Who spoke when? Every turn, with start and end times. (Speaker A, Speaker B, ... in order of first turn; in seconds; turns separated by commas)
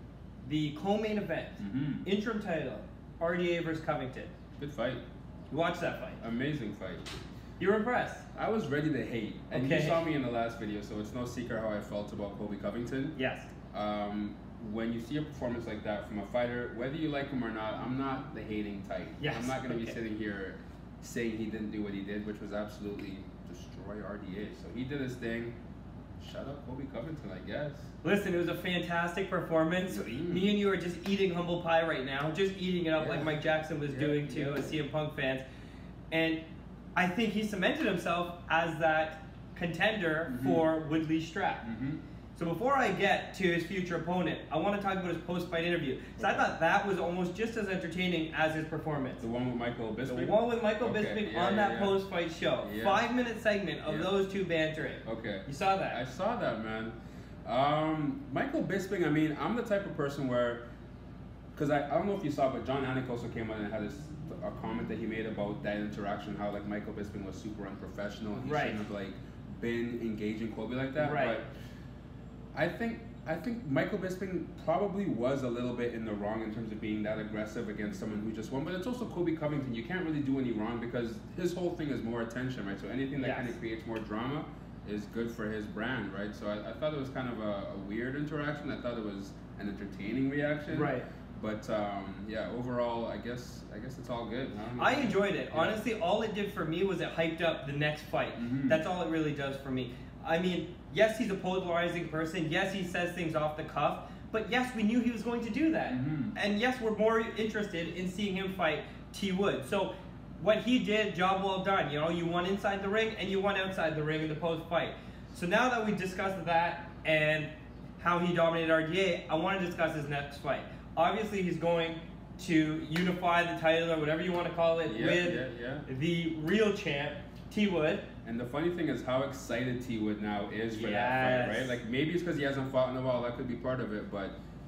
Speaker A: 0.4-4.3, Speaker B: 1.6-2.0, Speaker B: 4.6-5.0, Speaker A: 5.5-6.2, Speaker B: 6.2-7.0, Speaker A: 7.6-8.2, Speaker B: 8.3-13.2, Speaker A: 9.5-10.0, Speaker A: 13.2-13.5, Speaker B: 13.7-25.5, Speaker A: 19.2-19.9, Speaker B: 26.2-27.9, Speaker A: 28.0-35.4, Speaker B: 29.9-30.5, Speaker B: 33.0-33.3, Speaker B: 33.9-34.8, Speaker A: 36.1-36.4, Speaker A: 37.0-41.6, Speaker B: 40.3-40.7, Speaker B: 41.6-42.0, Speaker A: 42.3-49.2, Speaker B: 46.2-46.5, Speaker B: 49.2-52.0, Speaker A: 50.1-56.0, Speaker B: 52.6-53.0, Speaker B: 53.9-54.1, Speaker B: 55.0-60.6, Speaker B: 61.5-71.5, Speaker A: 68.4-68.8, Speaker A: 71.0-71.4, Speaker B: 72.5-95.8, Speaker A: 83.2-83.5, Speaker A: 90.7-91.0, Speaker A: 94.8-128.0, Speaker B: 98.3-98.8, Speaker B: 105.9-106.3, Speaker B: 124.9-125.8, Speaker B: 128.2-134.3, Speaker A: 130.7-131.8